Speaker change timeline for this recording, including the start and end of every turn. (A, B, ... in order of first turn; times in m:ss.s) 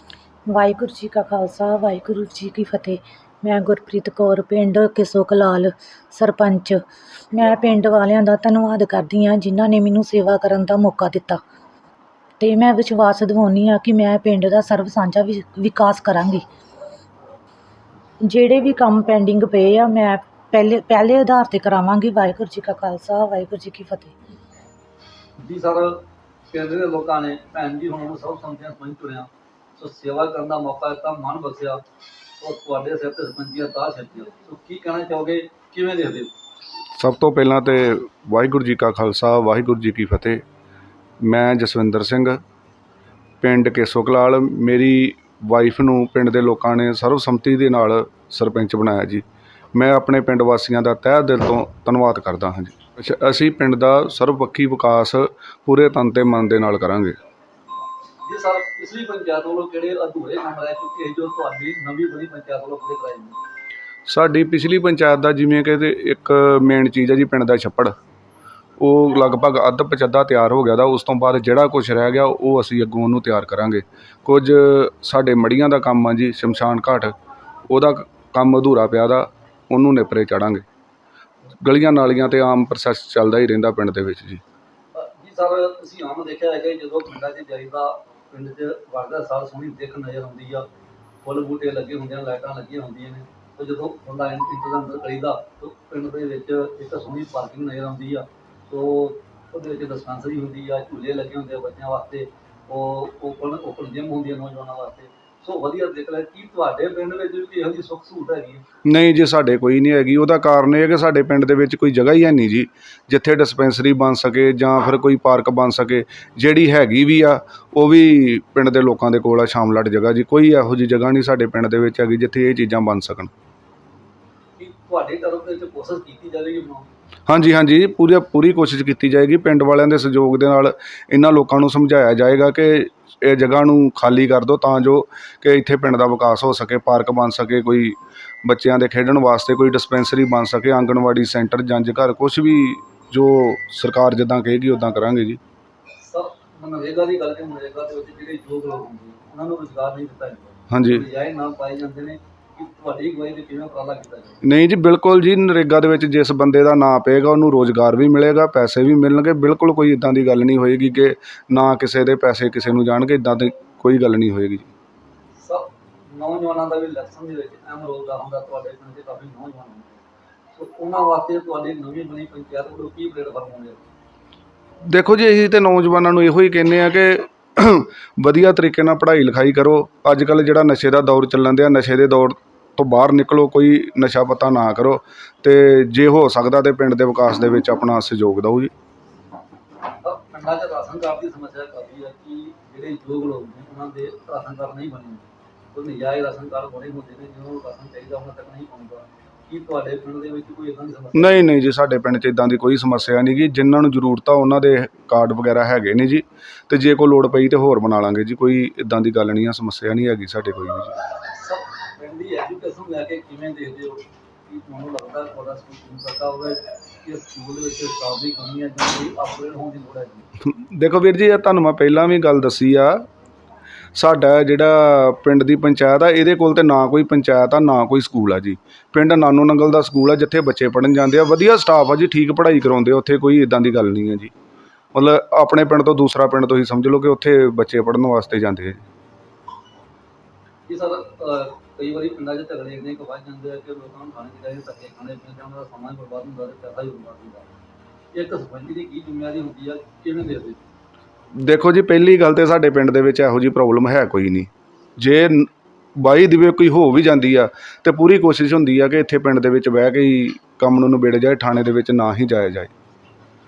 0:00.5-0:11.4 A
0:12.4-0:16.4 A
0:18.3-0:24.1 A
0:25.4-0:31.8 B
0:32.4-0:36.3 B
0:37.0-0:40.4 C
0:41.2-0:42.4 C
0:43.4-0:49.2 C
0:49.8-0:57.2 C
0:58.2-1:03.4 B
1:04.1-1:07.9 C
1:08.8-1:17.2 C
1:17.7-1:20.6 C
1:21.6-1:24.4 C
1:24.9-1:30.7 B
1:31.2-1:48.6 B
1:48.9-2:03.3 C
2:04.6-2:06.9 B
2:07.3-2:25.4 C
2:26.0-2:34.4 B
2:30.7-2:31.0 C
2:34.4-2:44.7 C
2:45.4-2:53.8 B
2:54.9-3:08.7 C
3:10.0-3:21.5 B
3:21.1-3:31.0 C
3:31.2-3:40.3 B
3:40.4-3:43.0 C
3:43.9-3:54.3 C
3:54.9-3:58.8 C
4:00.7-4:07.5 B
4:08.1-4:10.6 B
4:11.3-4:22.7 C